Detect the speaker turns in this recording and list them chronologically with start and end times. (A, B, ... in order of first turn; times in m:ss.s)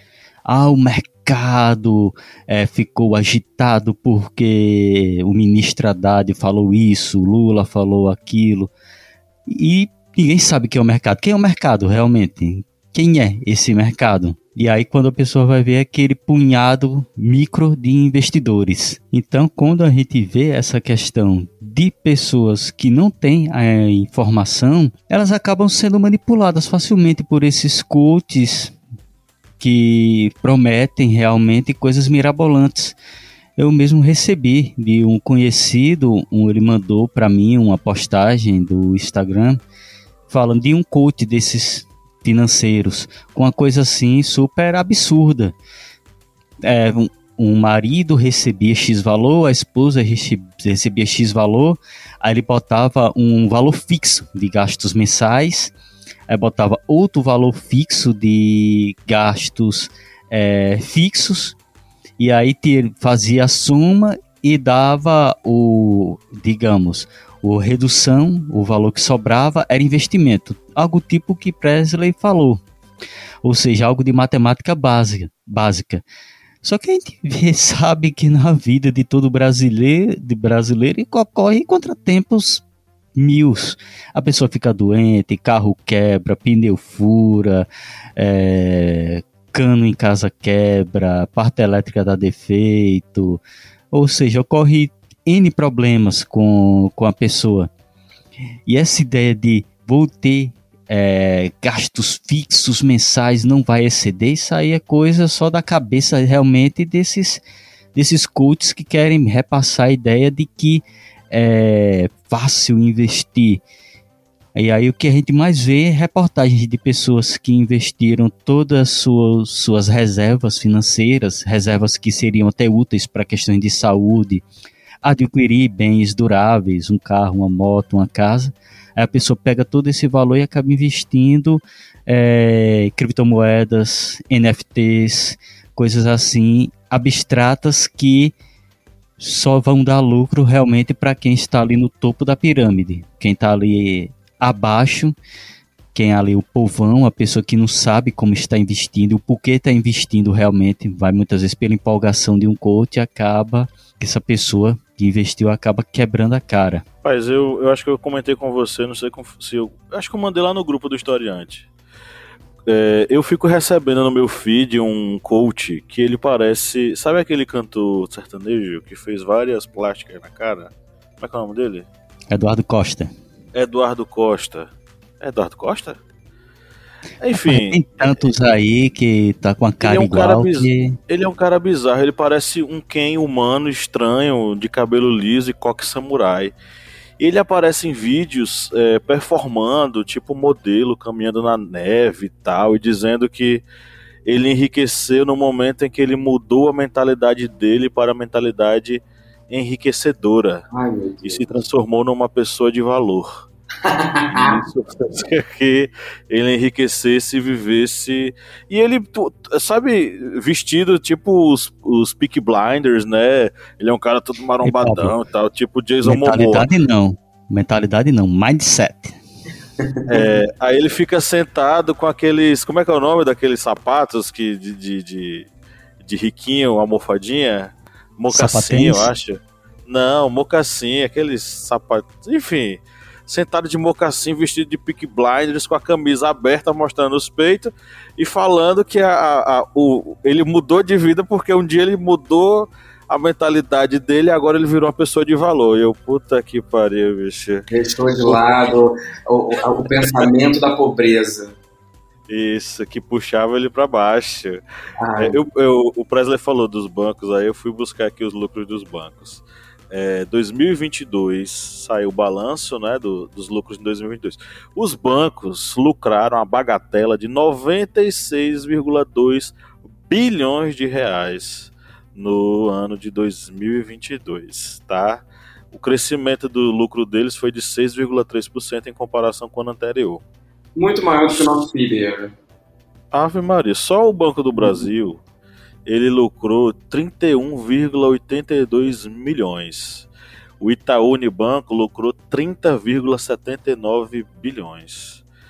0:00.4-0:08.7 A
0:09.5-0:28.8 A
0:29.6-0:33.0 A
0:33.6-0:39.6 A
0:40.3-0:45.5 A
0:46.6-0:55.7 A
0:56.3-1:01.6 A
1:02.2-1:12.6 A
1:13.4-1:16.0 A
1:16.6-1:22.6 A
1:23.2-1:33.4 A
1:33.9-1:37.7 A
1:38.7-1:47.4 A
1:47.9-1:53.6 A
1:54.5-2:04.4 A
2:05.0-2:18.3 A
2:19.2-2:25.1 A
2:25.9-2:36.8 A
2:37.0-2:41.7 B
2:42.6-2:51.9 B
2:52.3-2:53.1 A
2:53.5-2:54.7 B
2:55.2-2:56.0 B
2:57.2-2:58.2 B
2:57.3-3:01.0 A
2:59.8-3:06.5 B
3:07.2-3:13.6 B
3:14.3-3:20.6 B
3:20.7-3:21.4 C
3:21.2-3:23.4 B
3:23.8-3:24.6 C
3:24.3-3:36.7 B
3:34.6-3:35.1 A
3:36.0-3:39.2 A
3:39.8-3:40.3 C
3:40.1-3:45.5 B
3:46.0-4:08.8 B
3:48.3-3:49.1 A
4:07.7-4:11.6 C
4:10.0-4:10.3 B
4:12.3-4:14.6 B
4:15.0-4:15.4 C
4:15.2-4:40.2 B
4:40.8-4:42.3 C
4:43.1-4:45.2 B
4:45.9-4:50.1 B
4:50.6-4:55.2 B